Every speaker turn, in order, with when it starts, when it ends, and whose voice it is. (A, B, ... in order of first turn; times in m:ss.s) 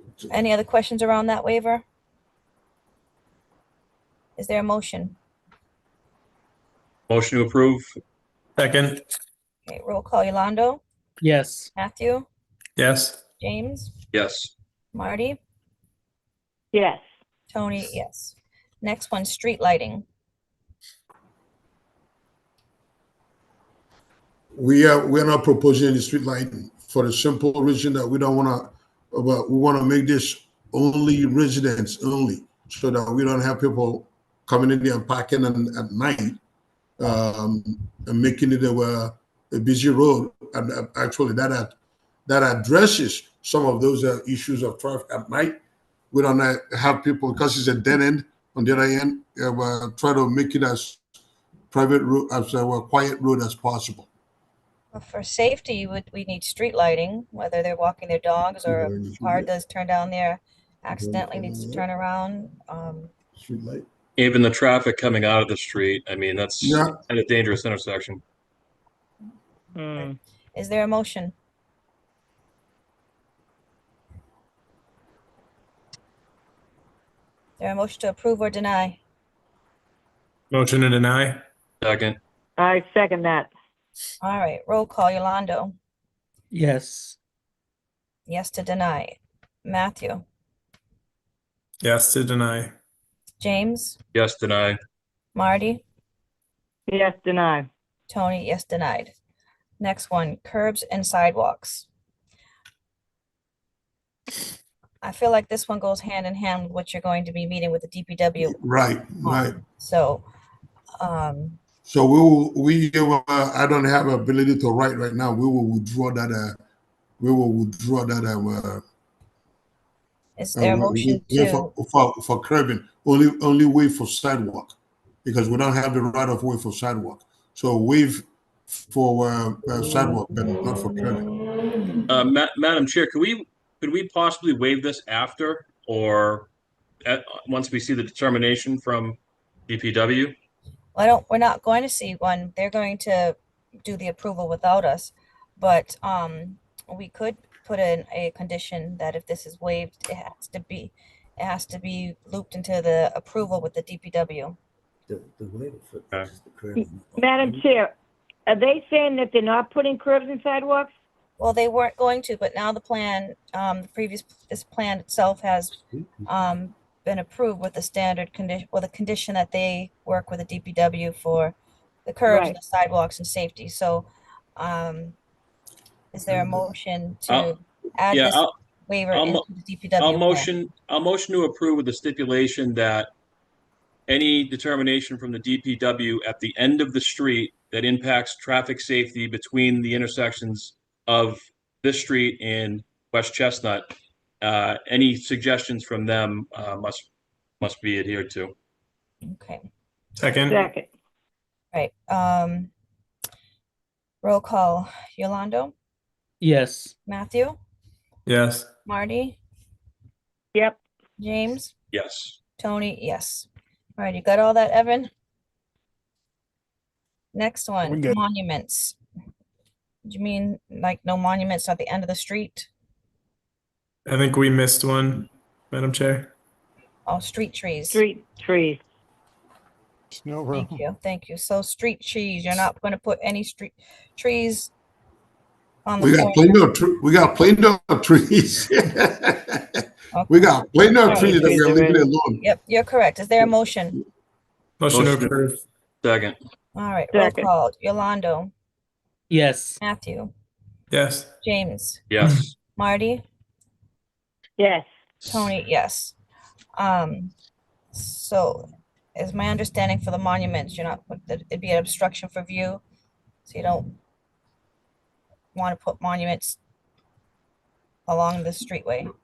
0:00.3-0:01.8 A
0:04.4-0:05.2 A
0:07.1-0:07.8 B
0:08.6-0:09.0 C
0:09.6-0:10.8 A
0:11.2-0:11.7 D
0:11.7-0:12.3 A
0:12.8-0:13.2 C
0:13.4-0:13.9 A
0:14.1-0:14.5 B
0:14.9-0:15.4 A
0:16.7-0:17.0 E
0:17.5-0:20.0 A
0:24.5-0:36.4 F
0:37.0-0:41.7 F
0:42.2-0:45.6 F
0:46.1-0:51.0 F
0:51.7-0:54.1 F
0:54.9-1:03.1 A
0:58.6-0:59.5 F
1:00.9-1:01.8 F
1:03.4-1:03.8 F
1:04.2-1:08.2 B
1:06.6-1:07.0 F
1:09.8-1:10.2 E
1:09.9-1:11.3 A
1:17.6-1:19.0 A
1:20.5-1:21.4 C
1:21.8-1:22.2 B
1:22.6-1:23.5 E
1:24.2-1:25.8 A
1:26.5-1:27.2 D
1:28.3-1:30.2 A
1:31.8-1:32.7 C
1:33.4-1:34.0 A
1:34.1-1:34.8 B
1:35.3-1:35.8 A
1:36.9-1:37.7 E
1:38.1-1:39.1 A
1:39.8-1:41.9 A
1:45.0-1:48.6 A
1:48.4-1:49.6 F
1:49.2-1:50.2 A
1:51.0-1:51.6 A
1:51.9-1:56.6 F
1:57.2-1:58.8 F
2:00.4-2:01.7 A
2:00.6-2:08.2 F
2:08.8-2:11.3 F
2:12.1-2:16.5 B
2:17.0-2:20.3 B
2:20.9-2:34.6 A
2:35.1-2:37.6 G
2:36.7-2:37.9 E
2:38.4-2:40.9 E
2:41.4-2:45.7 A
2:46.2-2:55.2 A
2:52.2-2:52.6 E
2:56.1-3:00.5 A
2:56.4-2:56.6 F
2:58.1-2:58.5 B
2:59.1-2:59.4 B
3:00.0-3:03.1 B
3:04.1-3:13.9 B
3:14.4-3:17.1 B
3:17.6-3:18.5 B
3:19.2-3:19.6 A
3:20.2-3:20.6 C
3:20.4-3:20.9 E
3:21.7-3:22.7 A
3:24.2-3:25.7 A
3:26.4-3:26.9 D
3:27.1-3:27.6 A
3:28.3-3:28.7 C
3:28.8-3:29.4 A
3:31.2-3:31.7 A
3:31.9-3:32.4 B
3:32.6-3:35.1 A
3:37.3-3:39.0 A
3:37.9-3:38.1 G
3:40.0-3:42.7 A
3:44.0-3:46.3 C
3:47.0-3:48.0 A
3:47.9-3:48.8 E
3:50.1-3:50.8 G
3:50.5-3:54.7 A
3:55.8-3:56.6 A
3:56.0-4:02.4 F
4:00.1-4:01.5 A
4:01.0-4:02.0 E
4:02.4-4:04.0 A
4:04.8-4:05.6 C
4:04.9-4:05.4 B
4:06.0-4:06.4 B
4:06.7-4:08.5 A
4:07.1-4:07.5 E
4:09.3-4:09.8 D
4:09.8-4:10.3 A
4:10.9-4:11.3 C
4:11.4-4:12.0 A
4:12.1-4:12.5 B
4:12.8-4:13.2 A
4:14.6-4:14.9 E
4:15.2-4:16.1 A
4:16.8-4:17.3 A
4:17.9-4:22.8 A
4:23.4-4:24.0 A
4:25.5-4:26.6 A
4:28.0-4:29.1 A